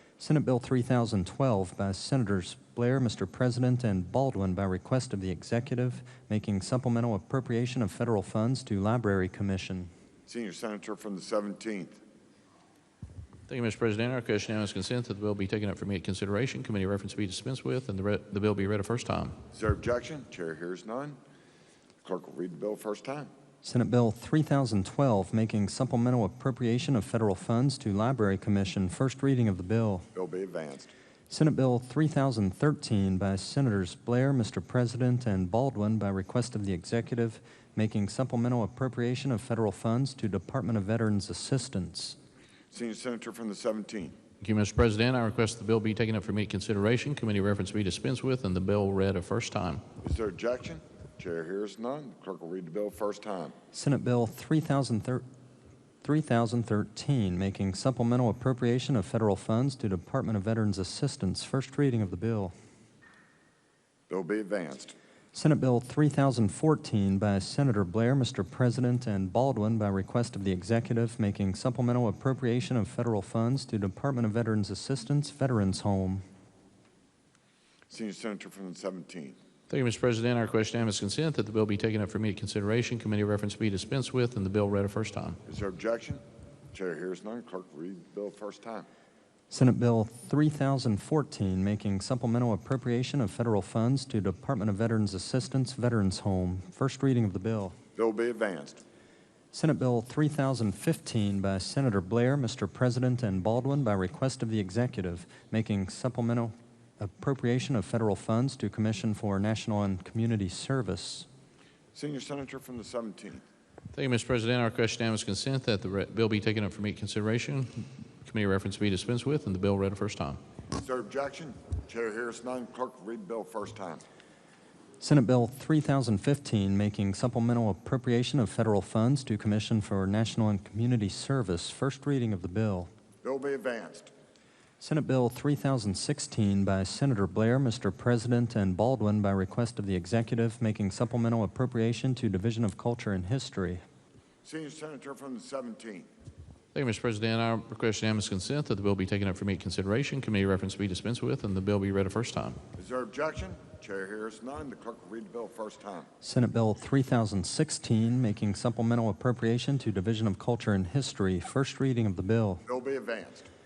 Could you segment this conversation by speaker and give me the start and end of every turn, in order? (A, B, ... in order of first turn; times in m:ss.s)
0:00.2-0:09.9 A
0:10.3-0:12.0 B
0:13.5-0:19.4 C
0:19.5-0:21.2 B
0:22.0-0:23.3 B
0:23.6-0:30.1 A
0:30.2-0:30.9 B
0:31.3-0:42.2 A
0:42.7-0:44.2 B
0:44.4-0:49.8 C
0:50.0-0:53.6 B
0:53.7-0:55.2 A
0:56.0-1:02.5 A
1:04.1-1:05.0 B
1:05.3-1:16.2 A
1:17.9-1:19.4 B
1:19.7-1:25.4 C
1:25.5-1:28.9 B
1:29.5-1:37.8 A
1:38.0-1:38.8 B
1:39.5-1:51.3 A
1:51.9-1:53.4 B
1:53.9-2:00.4 C
2:00.8-2:04.0 B
2:05.0-2:12.9 A
2:13.2-2:14.1 B
2:14.8-2:23.8 A
2:24.4-2:26.1 B
2:26.7-2:32.6 C
2:32.8-2:36.1 B
2:36.2-2:42.6 A
2:42.7-2:43.5 B